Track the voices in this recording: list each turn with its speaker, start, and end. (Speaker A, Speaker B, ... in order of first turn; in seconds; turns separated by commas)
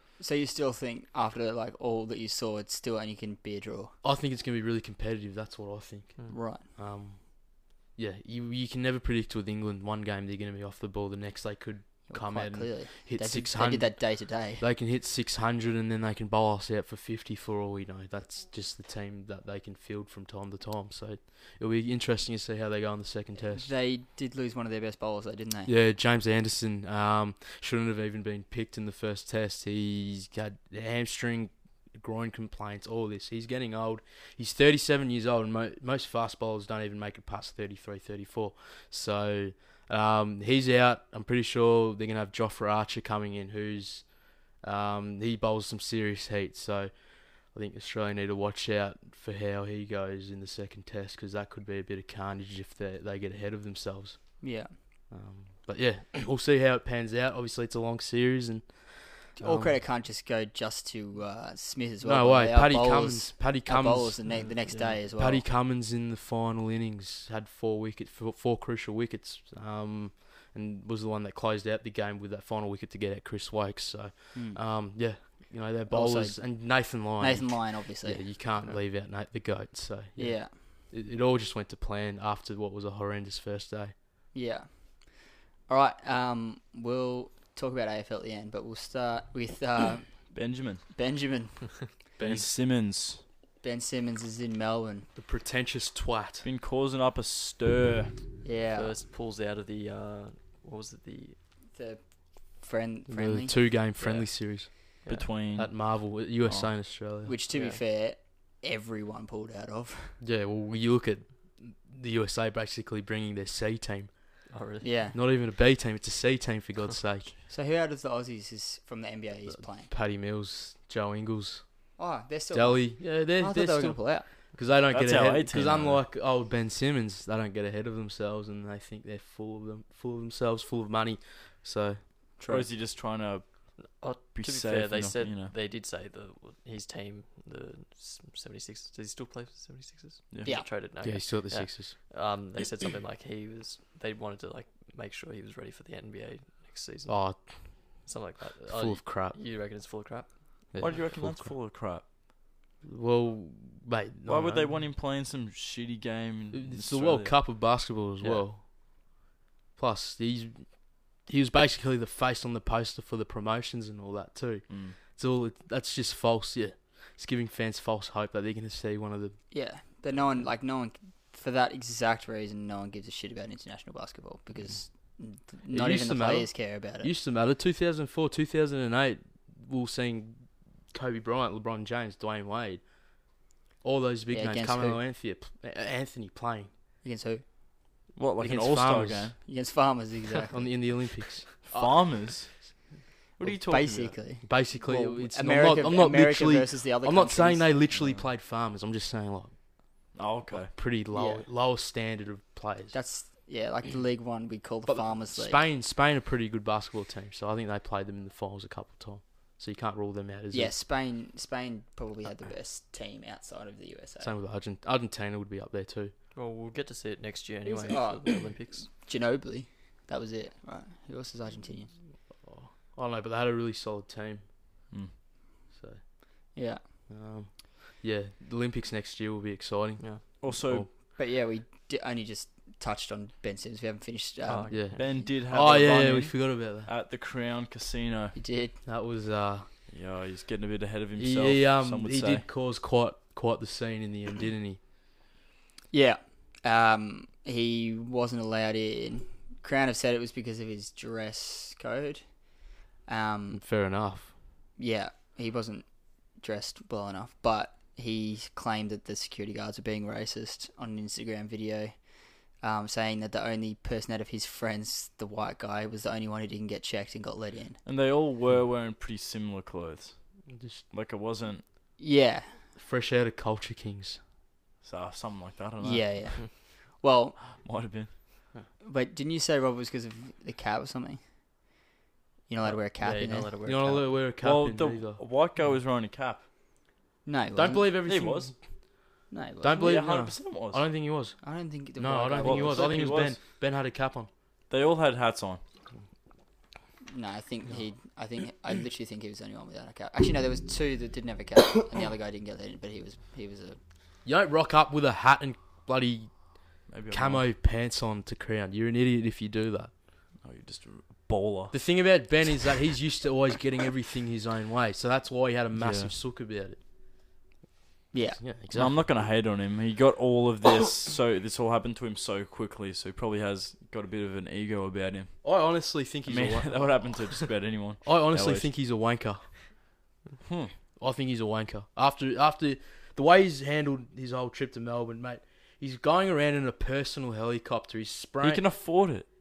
Speaker A: 0.2-3.9, Speaker B: 4.0-23.7, Speaker A: 6.3-6.6, Speaker A: 12.1-14.6, Speaker A: 23.5-25.7, Speaker B: 25.7-59.8, Speaker A: 54.4-54.7, Speaker A: 59.4-65.4, Speaker B: 62.0-83.9, Speaker C: 64.3-65.0, Speaker A: 74.3-74.6, Speaker A: 75.9-78.3, Speaker A: 80.2-80.6, Speaker A: 84.3-91.8, Speaker D: 90.3-90.8, Speaker B: 92.2-92.5, Speaker D: 92.2-93.2, Speaker A: 93.6-95.1, Speaker B: 95.2-96.5, Speaker D: 96.4-98.1, Speaker A: 98.4-98.9, Speaker C: 98.7-101.4, Speaker A: 101.7-103.6, Speaker B: 103.1-107.3, Speaker C: 104.0-105.3, Speaker D: 105.0-106.7, Speaker A: 107.2-110.2, Speaker C: 107.5-107.8, Speaker B: 110.2-114.5, Speaker C: 114.5-114.8, Speaker A: 114.8-115.2, Speaker B: 115.1-117.3, Speaker A: 117.5-119.9, Speaker B: 119.5-122.0, Speaker A: 122.0-124.3, Speaker B: 122.5-132.0, Speaker D: 124.9-126.0, Speaker A: 132.4-132.7, Speaker D: 132.4-135.5, Speaker C: 133.8-150.7, Speaker B: 141.0-141.9, Speaker B: 147.1-148.1, Speaker B: 148.7-149.4, Speaker B: 150.7-151.5, Speaker D: 150.8-152.1, Speaker B: 152.8-154.8, Speaker D: 154.2-157.4, Speaker B: 156.5-158.6, Speaker C: 158.2-158.4, Speaker B: 159.8-169.5, Speaker D: 164.7-165.0, Speaker A: 169.5-177.1, Speaker B: 175.7-183.3, Speaker B: 183.8-186.7, Speaker A: 184.3-185.0, Speaker A: 187.0-187.4, Speaker D: 188.2-189.3, Speaker B: 188.4-189.3, Speaker A: 189.4-190.9, Speaker B: 190.5-192.6, Speaker D: 191.7-194.2, Speaker A: 193.4-198.2, Speaker B: 194.4-202.9, Speaker D: 200.1-200.7, Speaker A: 201.1-201.5, Speaker A: 202.9-205.6, Speaker B: 204.8-210.7, Speaker A: 210.5-214.3, Speaker B: 214.2-216.1, Speaker C: 216.3-218.9, Speaker A: 217.6-221.9, Speaker B: 222.4-224.5, Speaker B: 225.7-226.0, Speaker A: 226.5-226.8, Speaker B: 227.1-230.9, Speaker C: 230.0-230.2, Speaker D: 230.4-230.9, Speaker A: 231.1-234.7, Speaker C: 234.4-234.9, Speaker B: 234.7-236.9, Speaker D: 234.9-238.4, Speaker A: 238.3-238.8, Speaker B: 238.8-239.7, Speaker D: 239.9-242.4, Speaker B: 241.2-244.8, Speaker A: 245.9-253.6, Speaker B: 253.5-254.3, Speaker A: 254.8-267.8, Speaker D: 267.8-271.6, Speaker B: 270.5-270.8, Speaker A: 272.0-272.6, Speaker B: 272.7-274.2, Speaker D: 274.8-276.5, Speaker A: 275.8-277.6, Speaker D: 277.5-278.1, Speaker A: 278.8-281.2, Speaker A: 282.5-284.0, Speaker C: 283.0-284.0, Speaker B: 283.6-285.2, Speaker D: 284.4-286.5, Speaker A: 287.2-287.9, Speaker B: 287.6-288.6, Speaker D: 288.1-288.6, Speaker A: 289.3-290.0, Speaker B: 289.6-294.3, Speaker D: 289.8-290.9, Speaker A: 291.4-292.9, Speaker D: 292.4-293.4, Speaker D: 294.7-295.6, Speaker A: 297.1-303.8, Speaker B: 304.2-310.0, Speaker D: 306.9-307.5, Speaker D: 310.4-312.2, Speaker B: 311.7-316.8, Speaker D: 315.7-316.1, Speaker A: 318.1-318.4, Speaker B: 318.4-319.0, Speaker D: 318.7-325.6, Speaker B: 325.4-327.3, Speaker D: 326.3-328.7, Speaker B: 328.0-329.6, Speaker D: 330.4-330.7, Speaker B: 331.0-338.7, Speaker D: 338.4-339.3